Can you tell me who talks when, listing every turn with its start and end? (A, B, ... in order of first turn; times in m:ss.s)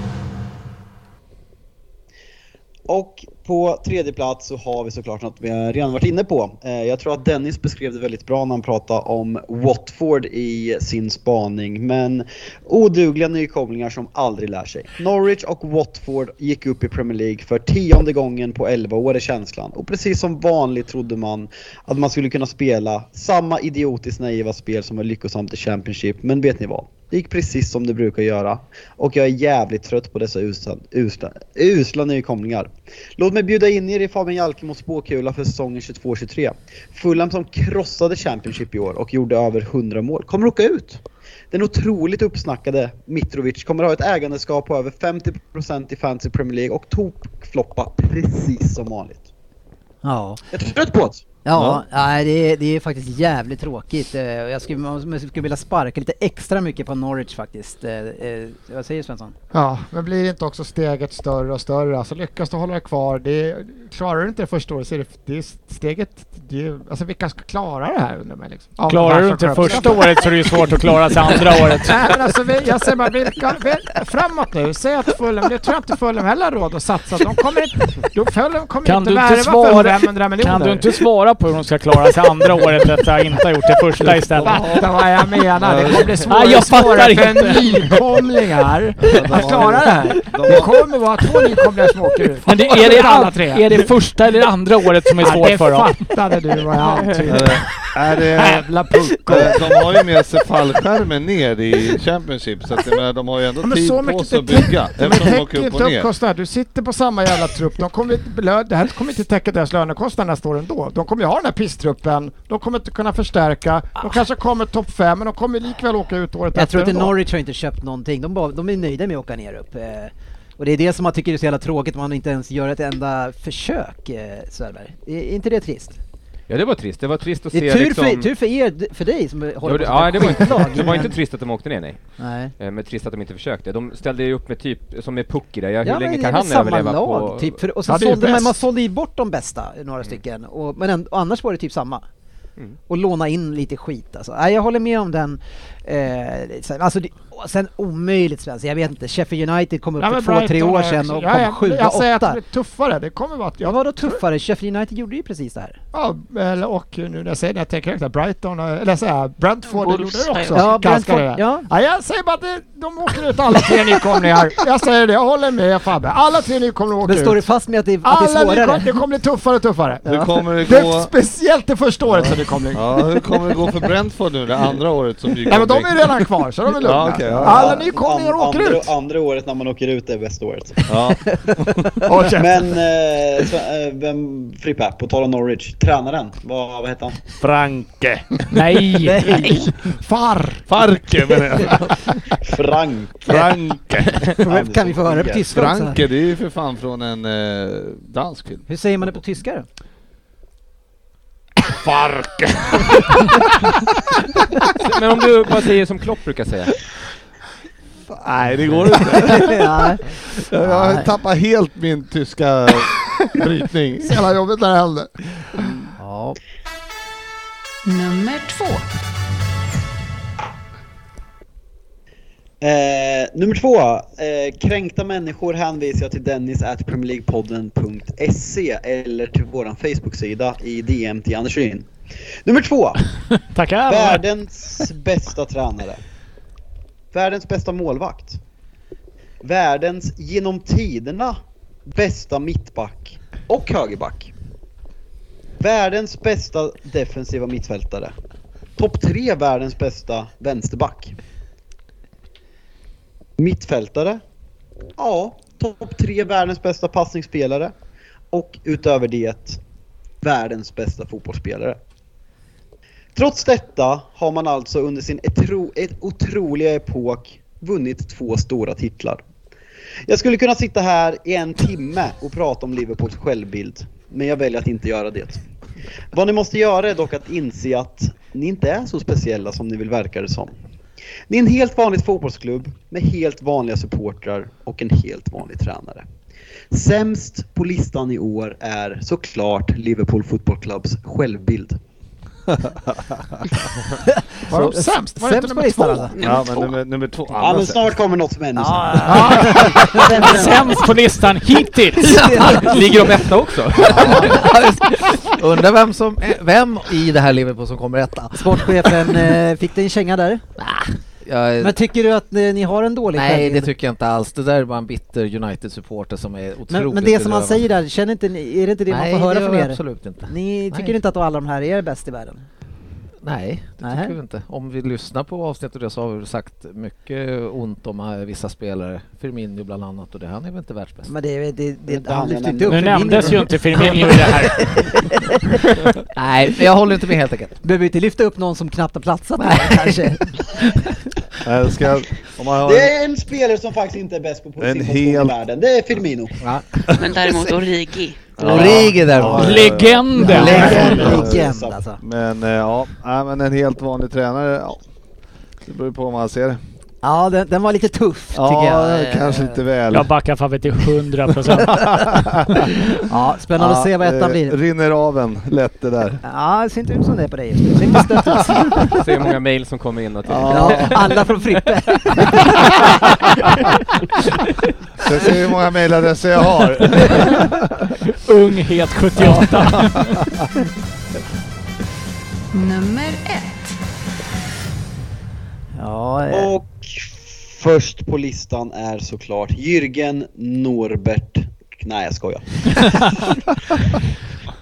0:02.9-0:49.3 A
0:50.0-0:50.4 B
0:50.5-0:51.2 A
0:51.4-0:59.4 B
0:51.5-0:51.8 C
0:59.5-1:10.7 D
1:08.9-1:12.0 E
1:11.4-1:20.9 D
1:18.8-1:24.8 E
1:24.0-1:26.4 C
1:24.4-1:33.7 D
1:26.3-1:28.0 E
1:29.0-1:30.8 C
1:32.4-1:36.0 E
1:35.2-1:37.7 D
1:37.2-1:46.1 C
1:38.3-1:40.0 D
1:43.6-1:57.1 D
1:56.6-2:06.0 B
2:06.5-2:08.3 F
2:07.5-2:11.1 B
2:09.6-2:12.0 F
2:12.2-2:12.5 B
2:12.6-2:17.6 F
2:15.8-2:22.0 B
2:17.9-2:18.6 D
2:22.9-2:32.4 B
2:30.0-2:34.2 D
2:33.6-2:35.8 B
2:35.9-2:47.4 D
2:39.7-2:40.7 G
2:40.5-2:41.7 B
2:47.0-2:48.9 B
2:48.0-2:53.0 D
2:50.1-2:51.1 C
2:52.1-2:56.2 C
2:55.5-2:58.9 D
2:56.8-2:57.9 C
2:57.4-3:00.9 A
3:00.9-3:02.1 C
3:02.1-3:02.7 D
3:02.3-3:07.2 A
3:07.4-3:08.5 C
3:08.5-3:09.4 E
3:09.1-3:09.6 B
3:09.3-3:10.7 D
3:10.7-3:12.4 C
3:12.4-3:13.4 A
3:13.2-3:14.4 C
3:14.4-3:16.0 B
3:14.4-3:15.5 A
3:15.5-3:18.6 C
3:18.7-3:19.7 B
3:21.6-3:23.3 C
3:24.8-3:26.8 F
3:28.1-3:34.2 C
3:29.1-3:31.1 B
3:34.0-3:35.7 D
3:36.0-3:36.4 B
3:37.9-3:38.9 H
3:42.6-3:51.9 A
3:52.4-3:53.0 A
3:53.4-3:54.2 E
3:53.9-3:56.0 A
3:57.1-3:58.4 A
3:59.4-4:04.3 A
4:05.6-4:08.1 A
4:08.8-4:11.2 A
4:13.4-4:14.2 A
4:15.0-4:17.7 A
4:18.3-4:19.6 A
4:20.2-4:21.8 A
4:23.2-4:29.2 A
4:30.1-4:35.4 A
4:36.1-4:40.5 A
4:41.3-4:46.0 A
4:46.7-4:51.8 A
4:52.5-4:53.2 C
4:54.1-4:56.2 B
4:54.4-4:56.1 D
4:56.2-4:57.8 C
4:56.2-4:56.5 G
4:57.4-5:00.7 A
4:58.6-5:00.5 B
4:59.1-5:02.7 E
5:02.0-5:02.8 B
5:02.5-5:04.4 F
5:03.7-5:09.4 I
5:03.9-5:04.4 B
5:08.4-5:10.4 B
5:10.6-5:11.8 I
5:11.6-5:13.7 B
5:13.1-5:17.7 I
5:16.7-5:22.5 B
5:18.9-5:20.9 I
5:23.2-5:31.1 I
5:23.8-5:24.2 B
5:31.1-5:35.8 B
5:31.9-5:33.4 A
5:32.7-5:34.8 E
5:36.2-5:37.6 I
5:37.6-5:40.8 B
5:39.4-5:40.1 I
5:41.4-5:42.9 C
5:42.6-5:46.4 A
5:44.6-5:45.4 C
5:46.9-5:47.1 C
5:47.0-5:48.3 G
5:48.4-5:49.6 I
5:48.4-5:51.5 C
5:48.4-5:49.6 B
5:49.3-5:50.8 E
5:50.2-5:51.1 D
5:50.3-5:52.0 B
5:50.3-5:51.8 A
5:52.0-5:54.8 C
5:55.7-5:56.6 C
5:57.0-5:59.6 B
5:58.3-6:00.1 C
5:59.9-6:02.0 E
6:01.7-6:02.6 C
6:03.0-6:04.6 B
6:03.6-6:06.2 C
6:06.2-6:08.9 B
6:08.8-6:11.1 F
6:10.3-6:11.1 C
6:10.5-6:13.8 B
6:12.2-6:12.8 F
6:15.0-6:17.9 C
6:18.2-6:20.3 E
6:19.2-6:20.3 C
6:22.5-6:23.8 H
6:25.8-6:26.6 B
6:26.3-6:33.4 A